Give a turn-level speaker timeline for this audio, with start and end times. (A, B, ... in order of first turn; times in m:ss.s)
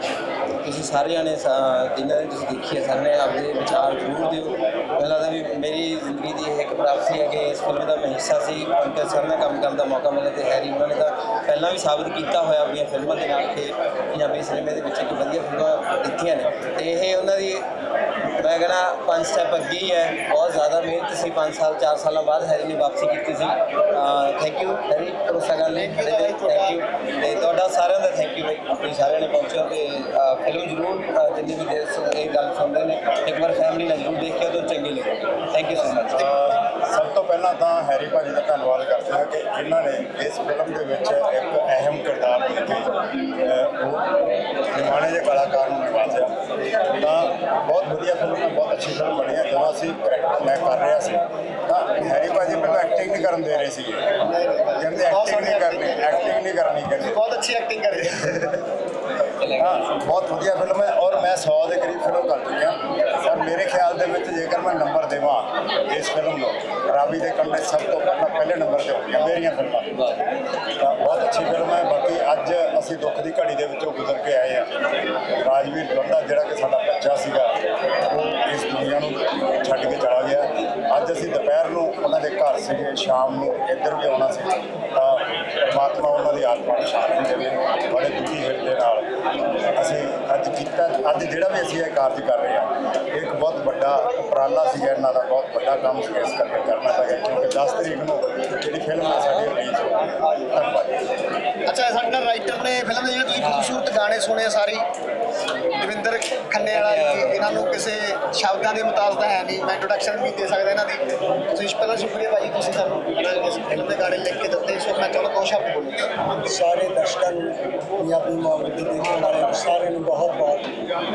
0:00.6-0:17.6 A
0:18.4-0:36.3 A
0:25.7-0:26.8 B
0:36.1-0:42.9 C
0:43.4-0:44.0 C
0:44.7-0:46.3 C
0:47.0-0:54.1 C
0:54.2-0:56.2 B
0:54.8-0:57.2 C
0:57.0-0:58.6 B
0:59.6-1:10.0 C
1:10.8-1:14.7 C
1:15.4-1:17.5 C
1:18.1-1:29.1 C
1:29.8-1:41.0 C
1:41.6-1:44.8 B
1:45.8-1:56.0 B
1:46.8-1:47.2 A
1:56.5-2:00.7 D